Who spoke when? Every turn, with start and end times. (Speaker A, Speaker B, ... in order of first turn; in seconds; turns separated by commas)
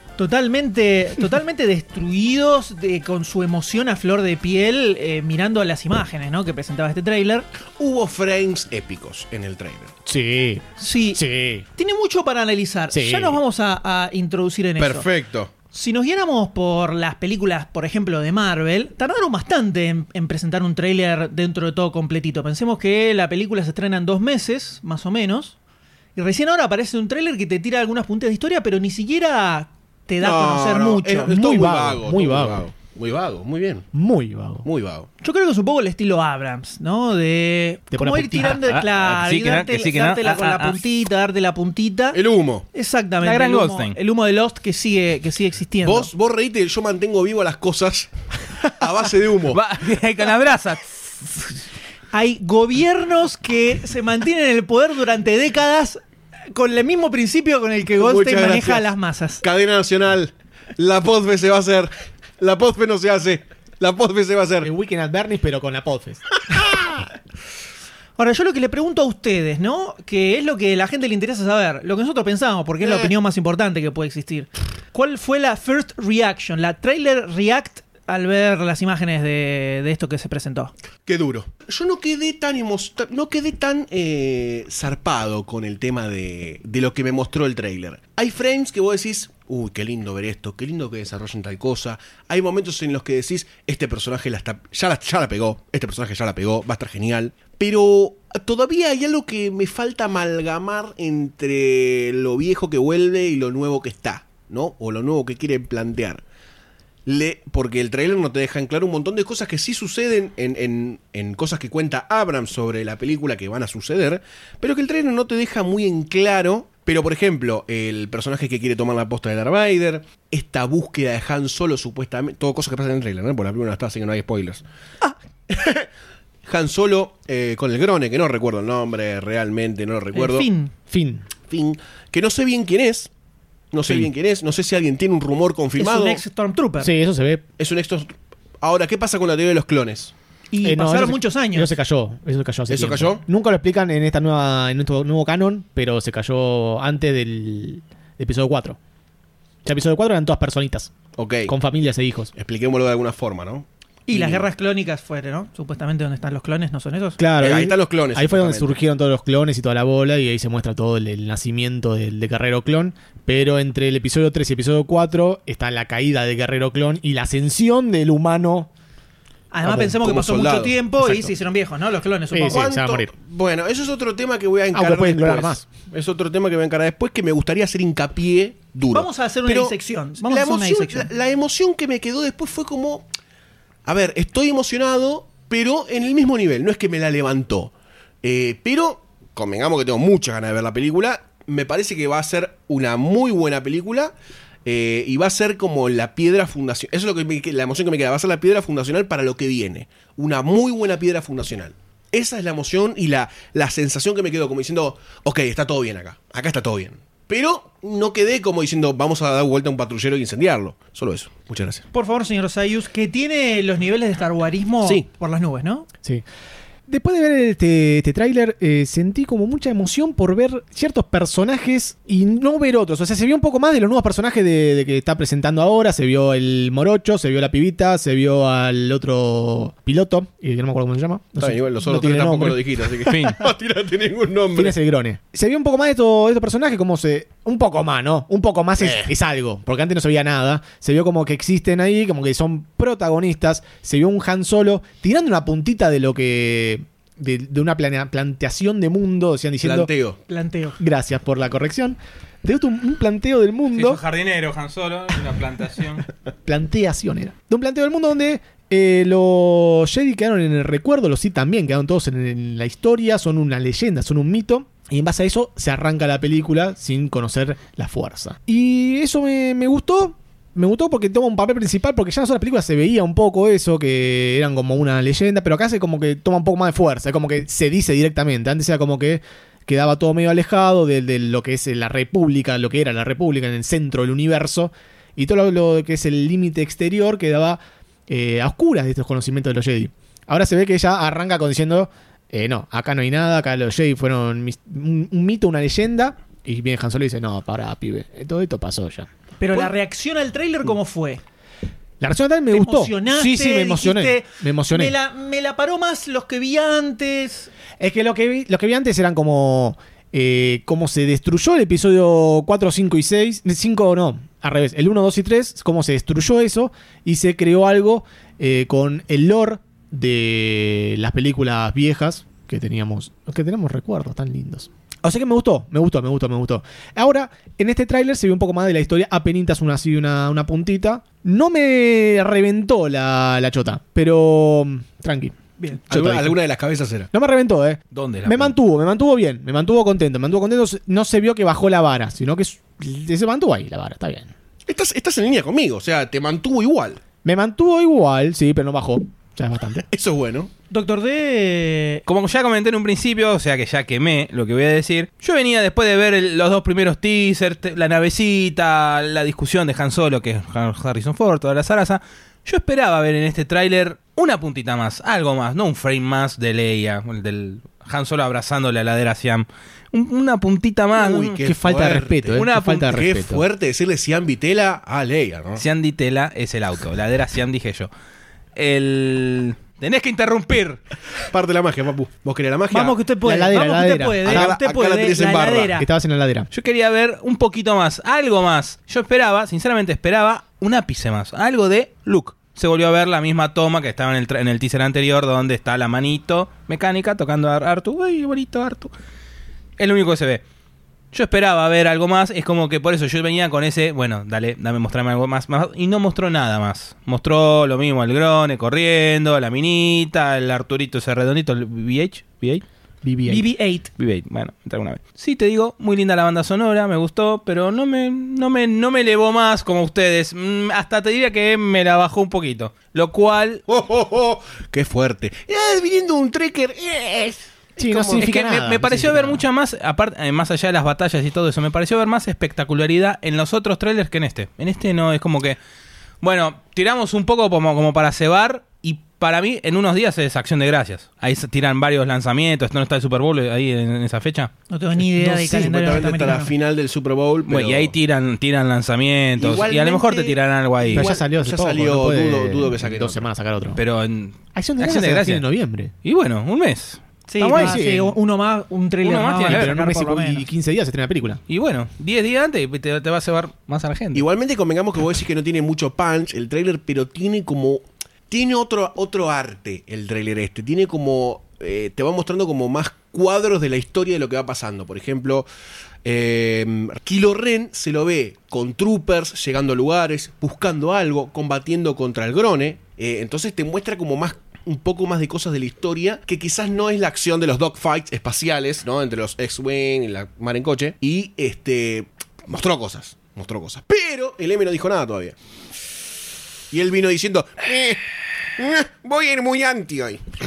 Speaker A: 0.2-7.5, Speaker B: 7.8-9.9, Speaker C: 10.1-11.7, Speaker A: 10.8-11.2, Speaker A: 11.8-15.1, Speaker C: 12.9-13.4, Speaker B: 14.8-15.5, Speaker A: 15.7-25.6, Speaker A: 26.1-31.3, Speaker B: 30.2-33.9, Speaker C: 31.2-32.6, Speaker C: 33.9-34.6, Speaker B: 34.6-35.1, Speaker A: 35.2-42.2, Speaker C: 37.9-38.6, Speaker D: 38.4-40.8, Speaker B: 42.1-42.6, Speaker A: 42.7-46.1, Speaker D: 43.2-44.0, Speaker B: 45.8-48.1, Speaker B: 48.6-49.6, Speaker D: 49.5-51.0, Speaker A: 52.1-56.0, Speaker A: 56.5-59.4, Speaker B: 57.9-58.9, Speaker B: 59.4-64.7, Speaker C: 64.6-67.0, Speaker A: 68.2-80.7, Speaker B: 72.8-73.1, Speaker B: 81.0-106.2, Speaker B: 107.0-124.6, Speaker B: 125.5-125.9, Speaker B: 126.4-130.5, Speaker A: 130.1-130.7, Speaker C: 130.9-131.2, Speaker B: 131.5-133.1, Speaker B: 133.7-136.2, Speaker A: 135.8-136.9, Speaker C: 136.8-137.4, Speaker B: 137.6-140.1, Speaker A: 140.5-141.7, Speaker C: 140.6-148.8, Speaker B: 142.7-143.2, Speaker C: 149.6-150.9, Speaker B: 151.2-151.5, Speaker C: 151.4-152.3, Speaker B: 152.3-154.4, Speaker A: 154.1-157.2, Speaker C: 157.2-168.7, Speaker B: 157.4-158.7, Speaker A: 169.5-172.7, Speaker C: 169.6-169.9, Speaker B: 169.9-170.8, Speaker C: 171.0-171.3, Speaker C: 172.3-173.1, Speaker B: 172.5-183.1, Speaker C: 174.7-175.7, Speaker A: 178.9-181.1, Speaker B: 183.8-194.1, Speaker B: 194.6-211.8, Speaker A: 211.9-215.9, Speaker C: 216.9-233.3, Speaker B: 231.4-234.8, Speaker D: 233.1-233.3, Speaker C: 234.5-249.9, Speaker B: 238.8-239.1, Speaker B: 249.6-250.2, Speaker A: 250.3-250.8, Speaker C: 250.8-254.0, Speaker D: 253.7-256.1, Speaker C: 256.4-299.7, Speaker A: 299.4-301.2, Speaker C: 302.0-304.9, Speaker A: 302.5-307.5, Speaker C: 307.8-336.4, Speaker B: 335.9-337.1, Speaker C: 337.1-344.3, Speaker D: 337.9-338.5, Speaker B: 344.7-347.0, Speaker C: 347.2-349.8, Speaker B: 349.9-350.5, Speaker A: 350.7-352.0, Speaker D: 352.1-371.4, Speaker B: 370.9-375.6, Speaker C: 371.4-373.4, Speaker D: 372.3-373.0, Speaker D: 375.6-377.9, Speaker D: 378.6-380.8, Speaker B: 381.3-383.0, Speaker A: 382.7-385.9, Speaker C: 383.2-384.5, Speaker B: 384.2-385.8, Speaker C: 385.7-386.5, Speaker D: 386.5-398.9, Speaker D: 399.8-400.4, Speaker D: 401.1-412.6, Speaker C: 413.0-413.4, Speaker A: 413.3-413.9, Speaker D: 414.0-423.6, Speaker B: 423.7-428.2, Speaker C: 427.8-429.4, Speaker D: 428.1-435.6, Speaker D: 436.2-444.5, Speaker A: 444.7-446.5, Speaker C: 445.0-446.2, Speaker B: 445.5-447.9, Speaker D: 447.5-451.1, Speaker B: 449.4-453.3, Speaker C: 450.9-453.8, Speaker D: 453.8-455.4, Speaker C: 454.5-455.9, Speaker D: 456.0-457.8, Speaker A: 457.3-460.4, Speaker C: 457.5-458.1, Speaker D: 459.0-459.7, Speaker C: 459.4-461.4, Speaker D: 461.5-464.2, Speaker B: 464.1-475.4, Speaker B: 476.0-495.4, Speaker B: 496.7-498.0, Speaker B: 498.6-500.2